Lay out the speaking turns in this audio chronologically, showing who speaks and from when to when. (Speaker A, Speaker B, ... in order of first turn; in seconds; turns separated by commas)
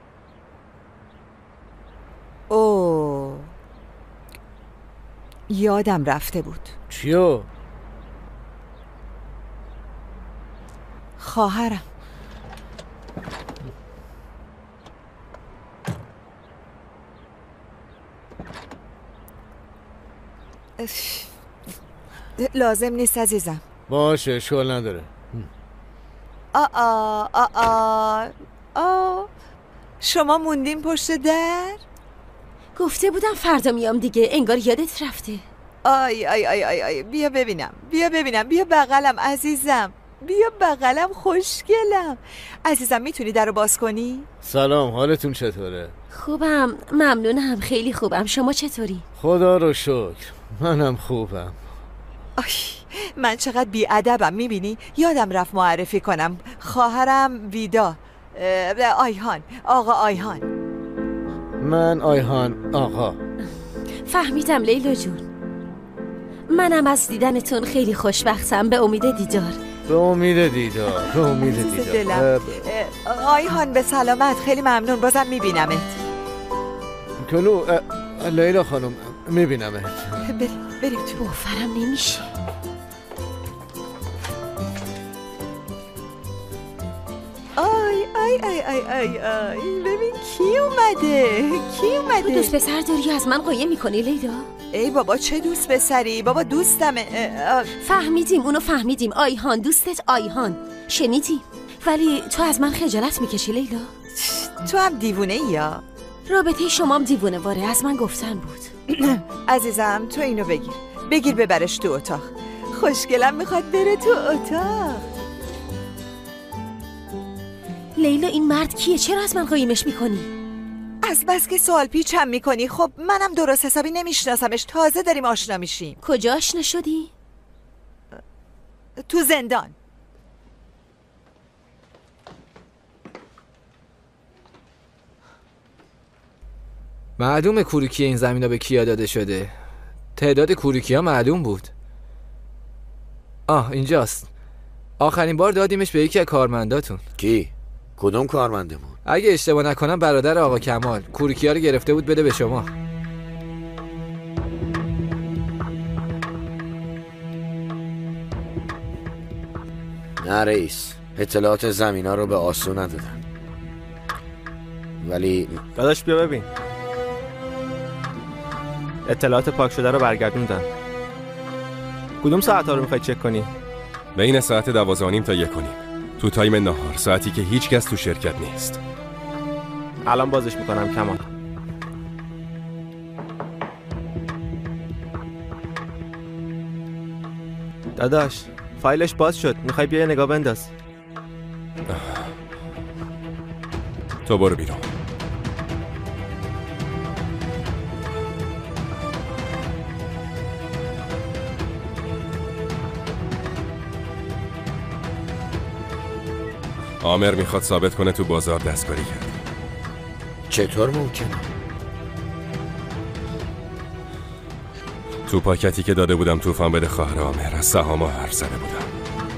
Speaker A: 2.5-3.5, Speaker A: 5.5-6.7, Speaker B: 6.9-7.5, Speaker A: 11.2-11.8, Speaker A: 20.8-21.3, Speaker A: 22.4-23.6, Speaker B: 23.9-25.5, Speaker A: 26.5-29.3, Speaker A: 30.0-31.8, Speaker C: 32.8-35.4, Speaker A: 35.8-44.3, Speaker B: 44.4-45.9, Speaker C: 46.1-49.0, Speaker B: 49.2-51.6, Speaker A: 52.4-60.4, Speaker B: 61.6-63.2, Speaker C: 64.0-65.2, Speaker C: 66.5-69.6, Speaker B: 69.9-72.5, Speaker A: 71.4-75.9, Speaker B: 77.2-80.2, Speaker A: 80.2-81.2, Speaker C: 81.2-82.3, Speaker A: 87.6-92.5, Speaker C: 92.2-94.5, Speaker A: 94.7-97.7, Speaker C: 97.8-103.9, Speaker A: 104.2-105.8, Speaker C: 106.3-108.7, Speaker A: 109.0-115.0, Speaker C: 118.0-120.3, Speaker A: 121.0-126.0, Speaker C: 126.0-127.1, Speaker A: 129.1-129.7, Speaker D: 137.2-139.5, Speaker D: 140.1-141.7, Speaker D: 143.5-144.3, Speaker D: 145.0-147.0, Speaker E: 147.2-149.0, Speaker D: 149.1-152.7, Speaker E: 160.2-163.2, Speaker E: 165.0-165.6, Speaker F: 165.8-166.5, Speaker F: 169.1-170.7, Speaker F: 172.2-173.5, Speaker G: 174.2-178.8, Speaker F: 180.1-181.2, Speaker F: 188.0-190.7, Speaker G: 191.9-192.3, Speaker G: 194.2-194.9, Speaker G: 207.0-209.4, Speaker E: 210.5-211.5, Speaker G: 215.3-218.9